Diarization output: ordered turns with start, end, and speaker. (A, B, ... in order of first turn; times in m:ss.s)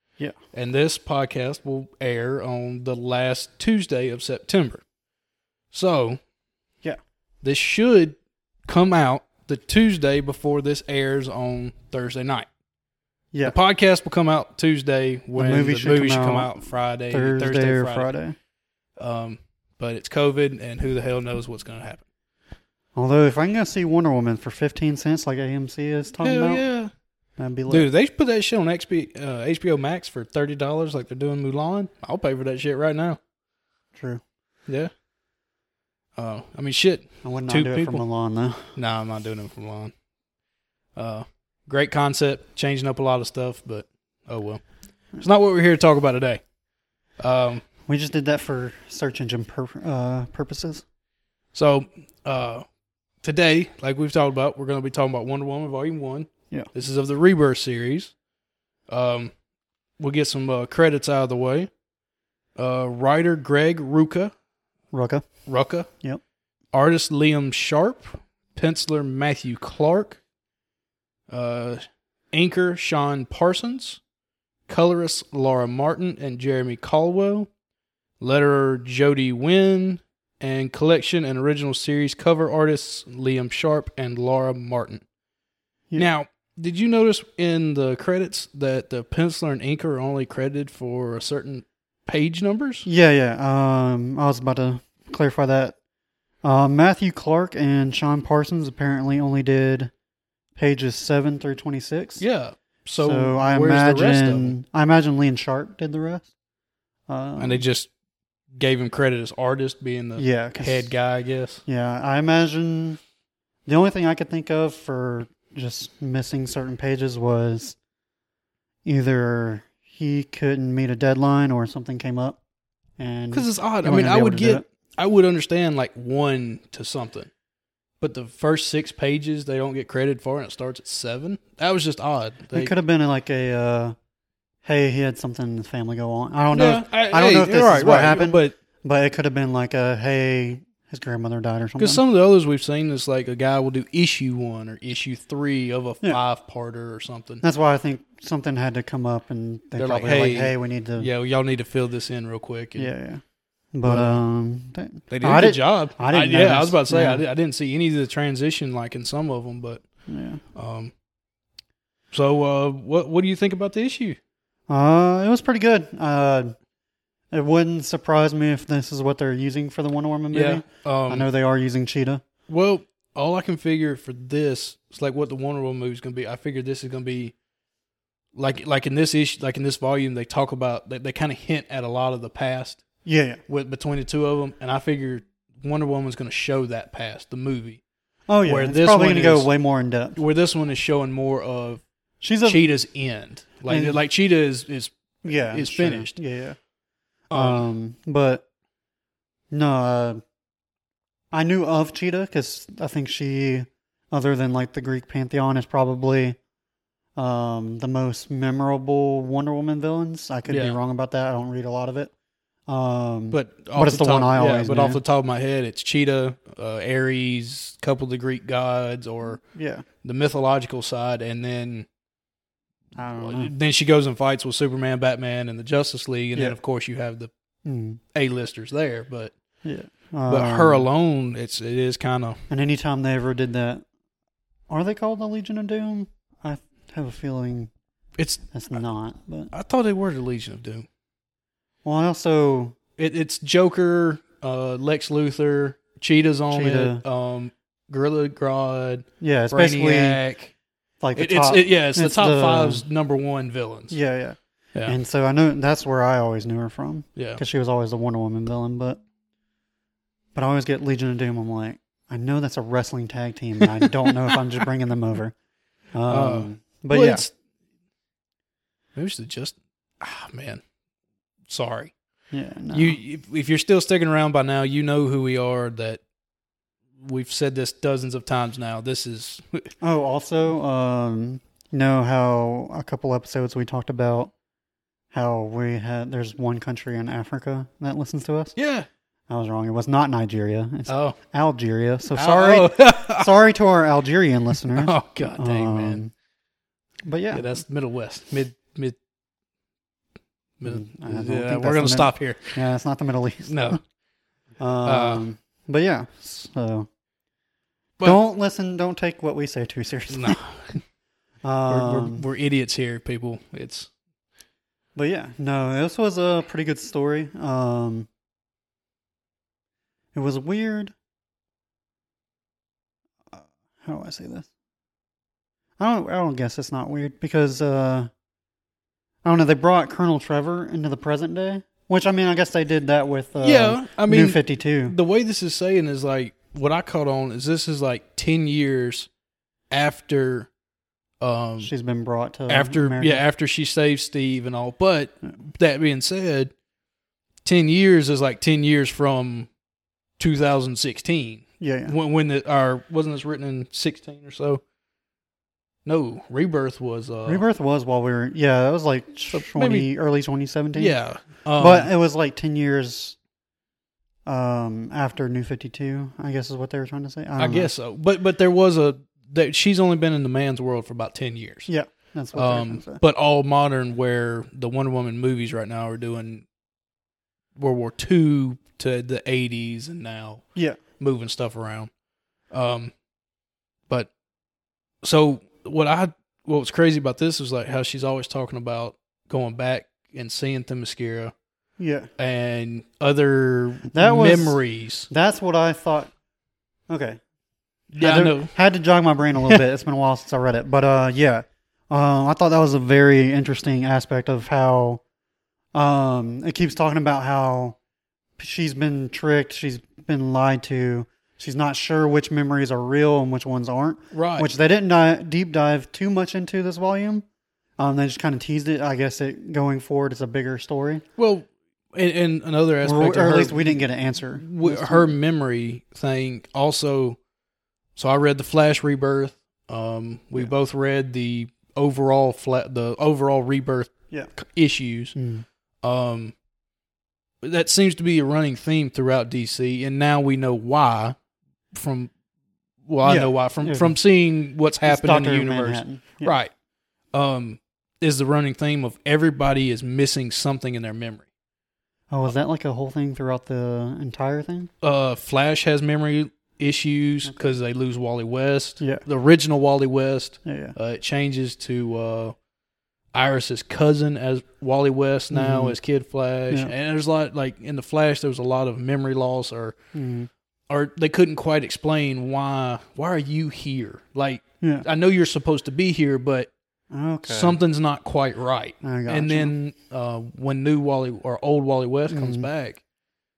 0:00.5-0:04.8 A
0:05.7-0:06.2 A
0:07.4-0:12.5 A
0:13.4-0:18.1 A
0:15.4-0:18.4 B
0:19.0-0:22.0 A
0:23.0-0:26.6 B
0:26.2-0:26.9 A
0:27.4-0:27.9 B
0:27.7-0:33.2 A
0:34.0-0:34.2 B
0:36.2-0:38.0 A
0:37.2-0:38.8 B
0:38.8-0:39.9 A
0:41.0-0:44.6 A
0:45.2-0:46.4 A
0:47.2-0:47.6 A
0:47.9-0:50.8 B
0:51.5-0:52.6 A
0:53.2-0:58.1 A
0:58.9-0:59.3 A
1:00.0-1:01.7 A
1:02.6-1:04.3 A
1:04.9-1:05.3 B
1:05.5-1:05.9 A
1:06.7-1:10.2 A
1:11.3-1:14.0 A
1:14.7-1:17.5 A
1:18.2-1:25.0 A
1:26.0-1:32.9 A
1:32.9-1:35.8 B
1:36.4-1:39.9 B
1:40.6-1:42.2 B
1:42.2-1:44.6 A
1:43.0-1:46.3 B
1:47.1-1:47.6 B
1:47.4-1:47.9 A
1:48.6-1:51.6 A
1:50.2-1:50.9 B
1:51.7-1:53.0 B
1:53.7-1:57.8 B
1:58.8-2:02.4 B
2:03.0-2:04.6 B
2:03.3-2:07.3 A
2:08.0-2:12.7 A
2:12.5-2:14.0 B
2:14.6-2:22.0 B
2:16.5-2:18.5 A
2:21.8-2:27.4 A
2:27.4-2:31.1 B
2:29.8-2:32.9 A
2:32.8-2:33.2 B
2:33.7-2:37.2 B
2:33.8-2:34.2 A
2:35.1-2:39.8 A
2:40.1-2:40.4 B
2:40.6-2:40.9 A
2:42.1-2:44.2 A
2:44.7-2:46.6 B
2:47.3-2:52.2 B
2:50.3-2:51.3 A
2:52.5-2:57.3 A
2:58.4-3:02.8 A
3:03.0-3:03.4 B
3:03.5-3:07.8 A
3:08.3-3:10.2 B
3:08.4-3:09.5 A
3:10.2-3:11.8 A
3:12.2-3:12.7 B
3:12.4-3:16.2 A
3:13.7-3:14.0 B
3:15.2-3:16.6 B
3:17.3-3:18.4 B
3:17.3-3:17.6 A
3:19.5-3:20.2 B
3:21.3-3:26.4 B
3:27.2-3:32.1 B
3:30.5-3:30.8 A
3:32.7-3:35.0 B
3:33.3-3:39.4 A
3:39.4-3:39.8 B
3:40.0-3:41.9 A
3:43.0-3:43.5 B
3:43.2-3:47.3 A
3:47.6-3:48.0 B
3:48.1-3:49.3 A
3:49.6-3:50.9 B
3:50.3-3:52.4 A
3:52.5-3:53.8 B
3:54.7-3:57.7 B
3:58.2-3:58.4 A
3:58.5-3:59.5 B
3:59.5-4:00.9 A
4:01.8-4:02.8 B
4:03.0-4:10.5 A
4:06.5-4:07.0 B
4:09.2-4:10.2 B
4:11.0-4:12.8 B
4:11.2-4:14.0 A
4:13.9-4:19.0 B
4:17.2-4:17.4 A
4:20.3-4:25.3 B
4:23.8-4:24.1 A
4:25.9-4:27.2 B
4:26.1-4:27.3 A
4:29.0-4:30.6 A
4:31.5-4:31.9 A
4:32.3-4:33.0 B
4:32.7-4:36.0 A
4:37.0-4:39.7 A
4:39.8-4:44.3 B
4:45.1-4:48.6 B
4:48.6-4:48.9 A
4:49.3-4:56.1 B
4:50.9-4:51.2 A
4:52.2-4:53.3 A
4:54.7-4:56.0 A
4:57.0-4:57.6 B
4:57.3-4:59.0 A
5:00.6-5:02.6 A
5:00.6-5:03.8 B
5:03.4-5:03.8 A
5:04.6-5:06.9 B
5:04.8-5:05.2 A
5:08.0-5:10.4 B
5:10.1-5:10.8 A
5:11.4-5:12.2 B
5:11.7-5:13.9 A
5:15.0-5:18.1 B
5:20.1-5:20.9 B
5:23.3-5:24.5 B
5:25.8-5:28.1 B
5:29.2-5:35.0 B
5:33.4-5:39.1 A
5:39.7-5:40.5 A
5:41.2-5:41.7 A
5:41.6-5:43.2 B
5:42.5-5:46.5 A
5:47.4-5:49.5 A
5:50.2-5:54.6 A
5:51.6-5:51.9 B
5:55.9-5:57.4 A
5:57.3-6:01.0 B
5:59.3-5:59.9 A
6:00.8-6:01.9 A
6:01.6-6:03.2 B
6:04.3-6:07.7 B
6:07.4-6:11.7 A
6:11.7-6:13.0 B
6:12.4-6:16.4 A
6:17.6-6:20.4 A
6:20.6-6:20.8 B
6:21.0-6:21.9 A
6:22.5-6:22.9 A
6:25.0-6:31.3 A
6:31.8-6:32.1 B
6:32.2-6:35.1 A
6:33.9-6:34.6 B
6:35.1-6:36.1 B
6:36.9-6:37.2 B
6:37.9-6:38.5 A
6:38.0-6:45.0 B
6:45.7-6:47.8 B
6:48.4-6:57.3 B
6:54.1-6:54.5 A
6:57.8-7:01.0 B
7:01.2-7:03.8 A
7:02.8-7:05.2 B
7:04.4-7:07.2 A
7:08.0-7:15.2 A
7:15.2-7:15.4 B
7:15.8-7:16.3 A
7:17.4-7:21.2 A
7:21.7-7:22.1 A
7:22.9-7:26.5 A
7:23.0-7:24.0 B
7:24.8-7:26.4 B
7:27.1-7:31.3 A
7:32.1-7:34.7 B
7:34.8-7:42.4 A
7:37.3-7:37.5 B
7:40.4-7:40.8 B
7:43.1-7:49.8 A
7:45.3-7:45.8 B
7:49.9-7:50.3 B
7:50.7-7:56.5 A
7:56.9-7:57.6 B
7:57.3-8:02.8 A
7:58.8-7:59.5 B
8:02.1-8:02.5 B